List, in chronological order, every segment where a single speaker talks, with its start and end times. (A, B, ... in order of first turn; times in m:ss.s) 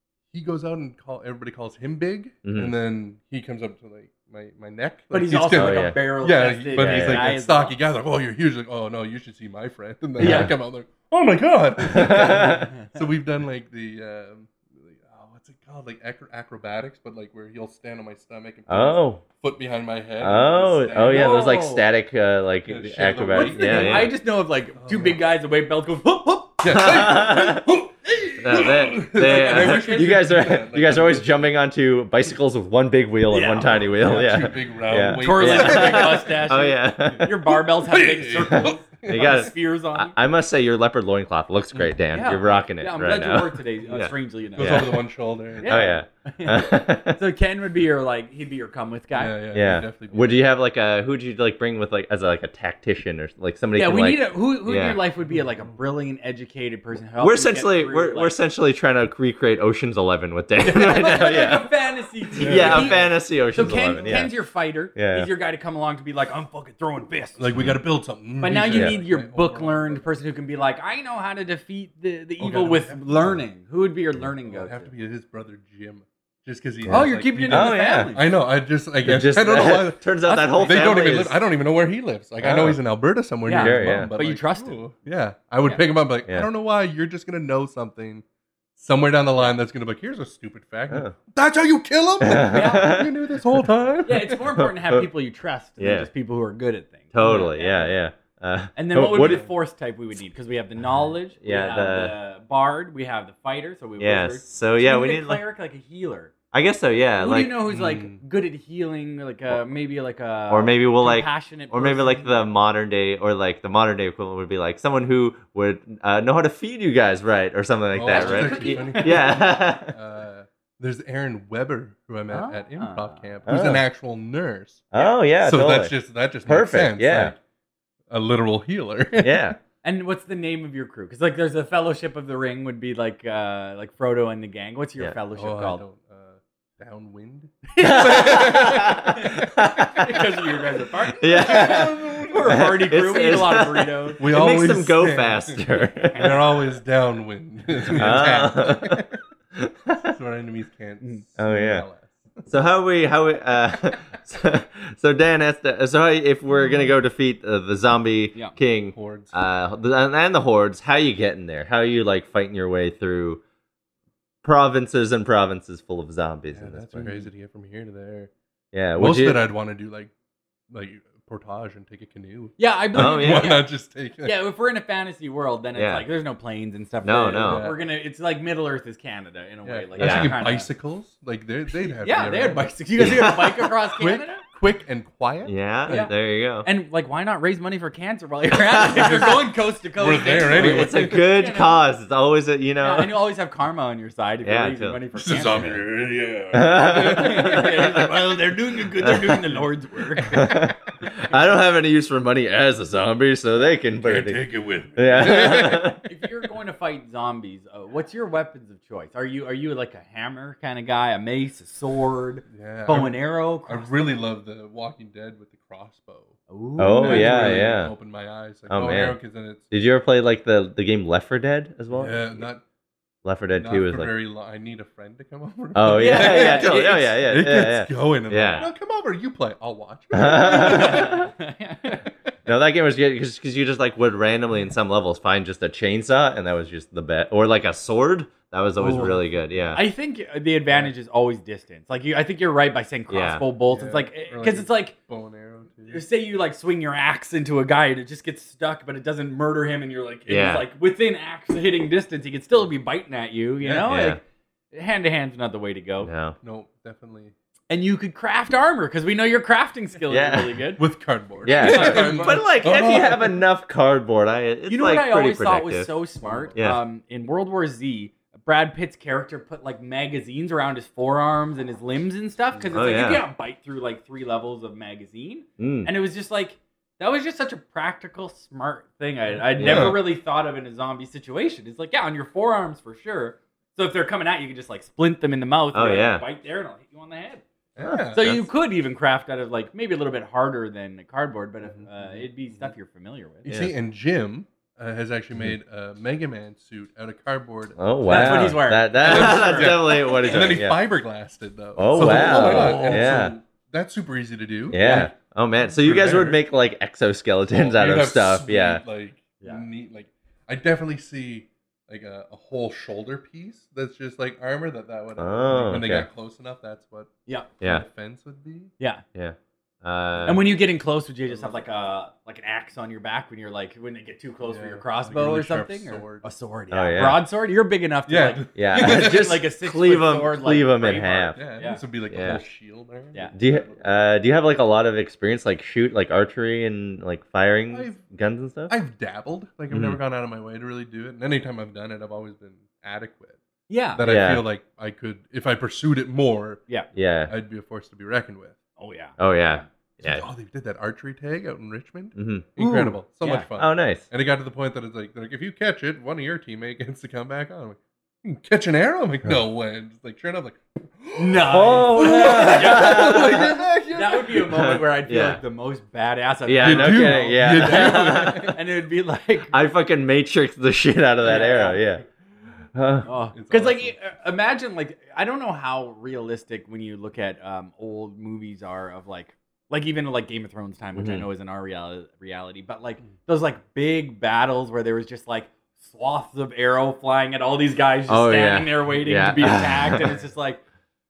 0:00.3-0:21.6 A
0:02.4-0:02.7 B
0:05.1-0:07.8 C
0:05.5-0:06.0 B
0:06.8-0:07.3 B
0:10.2-0:10.5 C
0:10.2-0:10.5 B
0:11.8-0:12.7 B
0:12.4-0:12.9 C
0:18.7-0:19.2 B
0:20.2-0:24.1 B
0:21.0-0:21.8 C
0:22.6-0:24.1 A
0:23.3-0:26.6 C
0:24.8-0:25.2 A
0:26.6-0:31.4 A
0:26.6-0:27.7 B
0:28.4-0:37.5 B
0:29.2-0:30.1 C
0:33.3-0:34.2 C
0:33.9-0:36.4 A
0:35.2-0:40.1 C
0:37.1-0:39.5 A
0:38.5-0:45.0 B
0:42.1-0:45.0 C
0:44.6-0:45.9 A
0:45.6-0:49.4 C
0:45.6-0:47.2 B
0:49.1-0:50.4 A
0:49.5-0:55.0 B
0:53.8-0:58.3 C
0:57.2-1:01.7 B
1:00.6-1:07.7 C
1:02.4-1:03.1 A
1:02.4-1:04.3 B
1:04.9-1:05.3 B
1:07.4-1:10.1 A
1:08.4-1:14.9 C
1:08.7-1:09.0 B
1:12.4-1:13.4 A
1:14.4-1:20.0 A
1:16.8-1:18.1 B
1:16.9-1:18.3 C
1:19.0-1:21.4 B
1:20.2-1:21.1 C
1:20.6-1:28.2 A
1:22.4-1:22.8 B
1:23.4-1:24.8 C
1:23.5-1:24.1 B
1:28.8-1:34.4 A
1:30.9-1:31.1 B
1:32.2-1:33.7 B
1:32.5-1:32.9 C
1:34.0-1:37.9 C
1:34.6-1:35.1 B
1:35.8-1:36.1 B
1:37.1-1:39.4 B
1:37.2-1:37.5 A
1:38.8-1:46.3 C
1:39.2-1:39.5 A
1:41.4-1:42.1 B
1:44.0-1:45.4 B
1:46.5-1:47.6 B
1:47.2-1:52.5 C
1:47.6-1:48.2 A
1:50.5-1:59.9 B
1:57.9-2:04.9 A
1:58.1-1:59.4 C
2:02.3-2:03.4 C
2:03.5-2:03.8 B
2:04.9-2:05.9 B
2:05.4-2:07.4 A
2:06.4-2:07.3 B
2:08.1-2:09.5 A
2:09.2-2:09.6 B
2:09.8-2:15.8 C
2:15.3-2:19.2 A
2:17.7-2:24.2 C
2:17.8-2:20.2 B
2:21.2-2:26.4 B
2:21.2-2:22.8 A
2:24.2-2:29.2 A
2:25.8-2:26.3 C
2:27.9-2:30.1 B
2:30.0-2:32.4 A
2:31.4-2:31.8 B
2:32.5-2:43.4 B
2:38.9-2:39.4 A
2:44.4-2:47.2 B
2:46.5-2:48.3 A
2:48.7-2:49.4 B
2:49.0-2:50.1 A
2:50.7-2:54.4 A
2:52.6-2:53.7 C
2:52.9-2:53.6 B
2:54.2-3:00.7 C
2:55.8-2:56.1 B
2:57.0-2:57.7 B
2:57.4-2:57.8 A
2:59.6-3:06.1 A
3:00.0-3:00.4 B
3:02.0-3:04.4 C
3:03.0-3:03.5 B
3:05.4-3:06.7 B
3:05.9-3:11.8 C
3:08.8-3:09.3 B
3:09.0-3:11.1 A
3:10.5-3:13.1 B
3:12.8-3:15.8 C
3:14.4-3:15.0 B
3:15.1-3:18.1 A
3:16.5-3:18.1 B
3:16.9-3:20.6 C
3:19.0-3:19.4 B
3:20.2-3:26.0 B
3:24.0-3:26.0 A
3:26.0-3:34.1 C
3:32.5-3:39.6 A
3:36.5-3:37.7 C
3:36.8-3:37.9 B
3:38.7-3:39.2 B
3:39.7-3:42.4 B
3:41.9-3:42.6 A
3:43.2-3:44.1 B
3:43.6-3:51.2 A
3:45.7-3:48.7 B
3:45.9-3:47.1 C
3:50.1-3:51.3 B
3:50.3-3:52.0 C
3:52.4-3:59.8 B
3:58.8-3:59.3 A
3:59.7-4:04.9 C
4:03.1-4:03.4 B
4:03.7-4:06.0 A
4:05.9-4:14.2 C
4:10.3-4:10.6 B
4:13.6-4:13.9 A
4:13.9-4:14.2 B
4:14.7-4:16.1 C
4:16.0-4:16.4 B
4:16.4-4:17.3 A
4:17.7-4:20.8 C
4:20.1-4:20.6 B
4:20.8-4:23.4 A
4:21.4-4:25.9 B
4:21.5-4:22.7 C
4:24.7-4:47.4 C
4:26.2-4:26.6 A
4:26.5-4:26.8 B
4:32.7-4:33.2 B
4:35.6-4:35.9 B
4:39.5-4:40.0 A
4:39.6-4:40.0 B
4:45.7-4:46.2 B
4:47.8-4:48.2 A
4:47.8-4:48.4 B
4:48.1-4:53.5 C
4:51.6-4:52.7 A
4:53.4-5:06.4 A
4:53.4-4:53.7 B
4:57.8-5:00.8 B
4:58.1-5:00.6 C
5:01.8-5:03.3 B
5:01.9-5:03.1 C
5:04.7-5:08.8 B
5:04.8-5:05.1 C
5:07.5-5:18.7 A
5:15.2-5:16.1 B
5:19.1-5:20.4 B
5:20.2-5:31.8 C
5:21.3-5:21.6 A
5:24.4-5:26.2 A
5:26.7-5:27.2 B
5:28.1-5:29.3 A
5:28.5-5:31.4 B
5:31.3-5:33.8 A
5:32.1-5:32.4 B
5:33.3-5:38.7 B
5:37.7-5:38.0 A
5:38.7-5:43.4 A
5:39.7-5:40.0 B
5:43.7-5:44.0 C
5:43.9-5:46.6 A
5:44.0-5:44.4 B
5:46.9-5:47.3 B
5:47.3-5:48.6 A
5:48.8-5:49.6 C
5:49.2-5:50.2 B
5:50.0-6:04.6 A
5:52.2-5:53.0 B
5:53.6-5:54.0 B
6:01.2-6:09.5 C
6:01.5-6:03.6 B
6:04.4-6:05.4 B
6:06.4-6:08.6 B
6:06.6-6:08.6 A
6:09.5-6:12.0 B
6:11.2-6:11.8 C
6:12.7-6:13.1 B
6:13.0-6:30.6 C
6:13.3-6:14.0 A
6:21.0-6:21.3 B
6:28.1-6:30.2 B